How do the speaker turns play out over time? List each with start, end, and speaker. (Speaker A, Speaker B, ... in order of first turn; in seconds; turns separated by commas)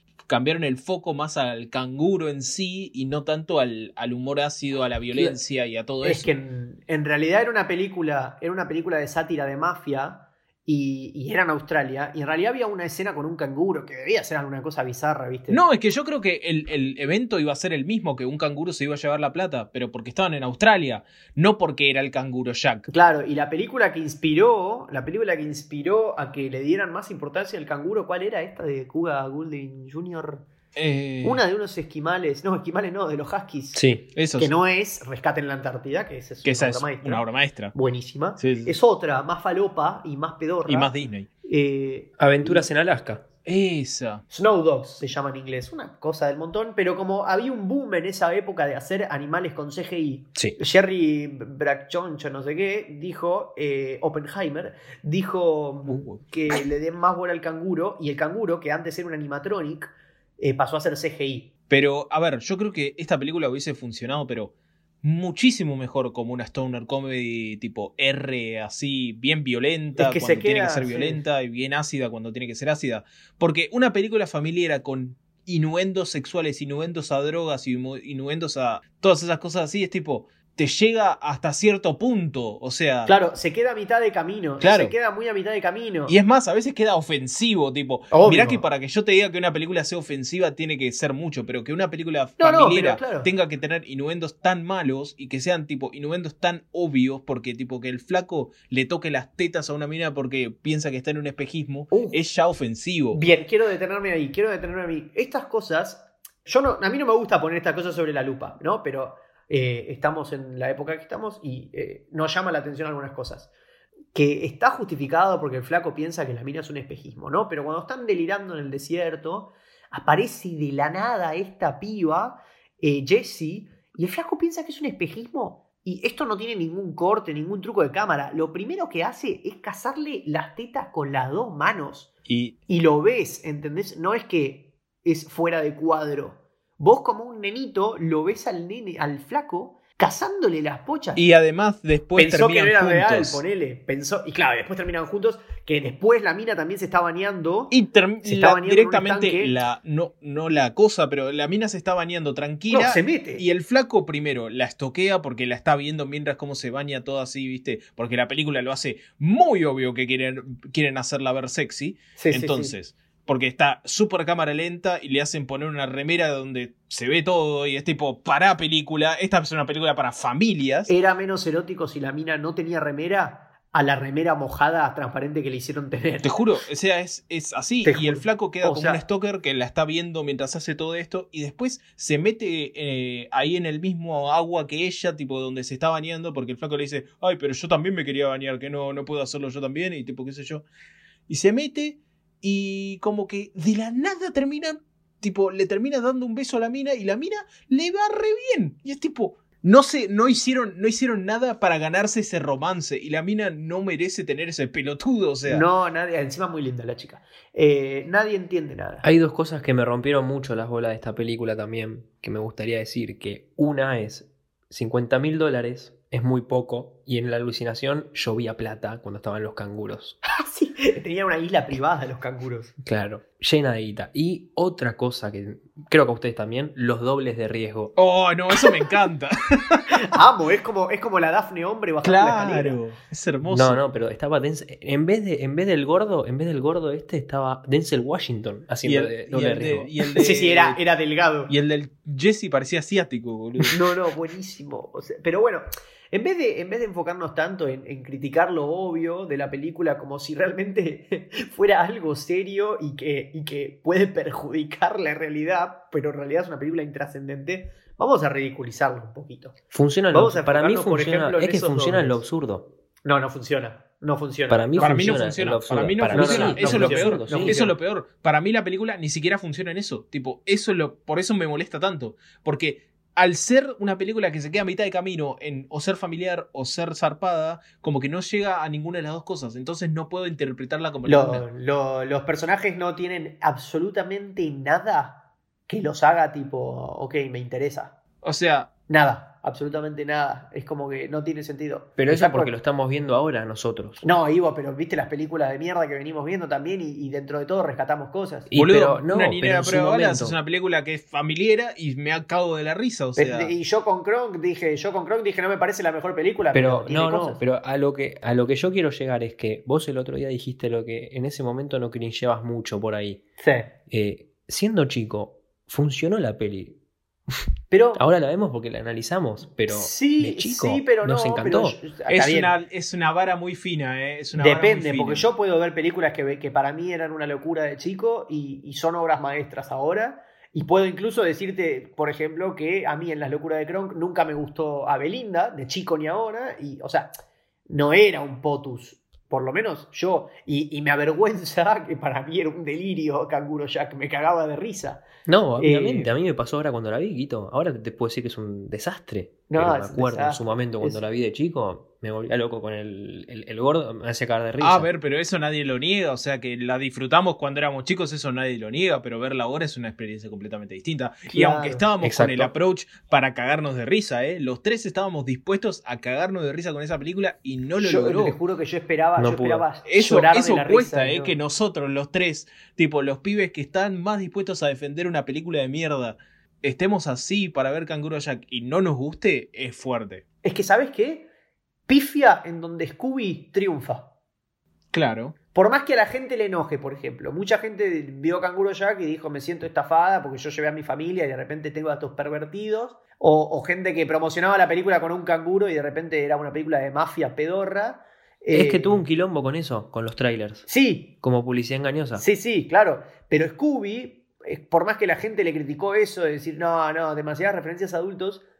Speaker A: 0.3-6.3, Speaker B: 5.1-5.4, Speaker B: 6.0-15.6, Speaker A: 15.5-22.9, Speaker B: 22.9-30.4, Speaker A: 30.7-31.4, Speaker B: 31.2-33.8, Speaker C: 33.7-34.1, Speaker A: 34.1-34.5, Speaker B: 34.4-40.9, Speaker A: 36.4-37.7, Speaker A: 38.4-38.8, Speaker A: 40.7-41.3, Speaker B: 41.4-42.6, Speaker C: 42.2-43.2, Speaker A: 43.4-44.2, Speaker B: 44.3-61.5, Speaker A: 55.9-56.2, Speaker A: 61.7-83.1, Speaker B: 70.0-71.2, Speaker B: 83.0-86.1, Speaker A: 84.6-84.9, Speaker A: 86.1-103.2, Speaker B: 88.1-88.6, Speaker B: 92.4-93.3, Speaker B: 101.9-102.2, Speaker B: 103.1-113.5, Speaker B: 114.1-132.1, Speaker A: 132.3-132.6, Speaker B: 132.7-141.2, Speaker A: 141.2-143.4, Speaker B: 142.2-149.6, Speaker A: 147.7-170.9, Speaker B: 152.7-153.4, Speaker B: 162.2-162.7, Speaker B: 170.9-176.3, Speaker A: 176.2-190.6, Speaker B: 177.8-179.0, Speaker A: 191.3-205.7, Speaker B: 205.4-209.0, Speaker C: 209.0-220.2, Speaker B: 220.2-222.7, Speaker C: 222.8-227.9, Speaker A: 227.9-230.0, Speaker B: 229.9-232.8, Speaker A: 232.0-233.8, Speaker C: 233.5-239.9, Speaker A: 238.8-240.8, Speaker B: 240.1-241.5, Speaker A: 241.5-243.9, Speaker B: 243.7-259.6, Speaker C: 259.7-262.7, Speaker B: 260.1-262.2, Speaker B: 263.0-265.2, Speaker C: 264.5-267.6, Speaker A: 264.8-281.4, Speaker B: 266.1-267.7, Speaker B: 281.0-288.0, Speaker A: 288.2-288.7, Speaker B: 288.9-292.5, Speaker C: 292.0-294.0, Speaker B: 294.0-298.5, Speaker C: 298.5-300.4, Speaker A: 298.5-303.5, Speaker B: 303.1-307.4, Speaker C: 306.5-313.2, Speaker B: 313.4-313.7, Speaker C: 313.9-316.8, Speaker B: 317.7-318.0, Speaker C: 317.9-321.8, Speaker B: 319.7-322.5, Speaker A: 322.1-325.3, Speaker B: 324.4-337.1, Speaker B: 337.7-345.0, Speaker C: 345.2-354.9, Speaker B: 345.6-346.1, Speaker B: 349.5-351.0, Speaker A: 354.6-368.4, Speaker B: 361.3-361.9, Speaker C: 362.0-362.5, Speaker B: 367.8-371.4, Speaker C: 369.2-369.6, Speaker A: 369.9-380.2, Speaker B: 380.4-381.3, Speaker B: 381.9-384.1, Speaker A: 384.9-385.4, Speaker B: 385.5-399.0, Speaker C: 398.5-400.7, Speaker B: 400.7-401.1, Speaker C: 401.2-402.2, Speaker B: 402.1-408.4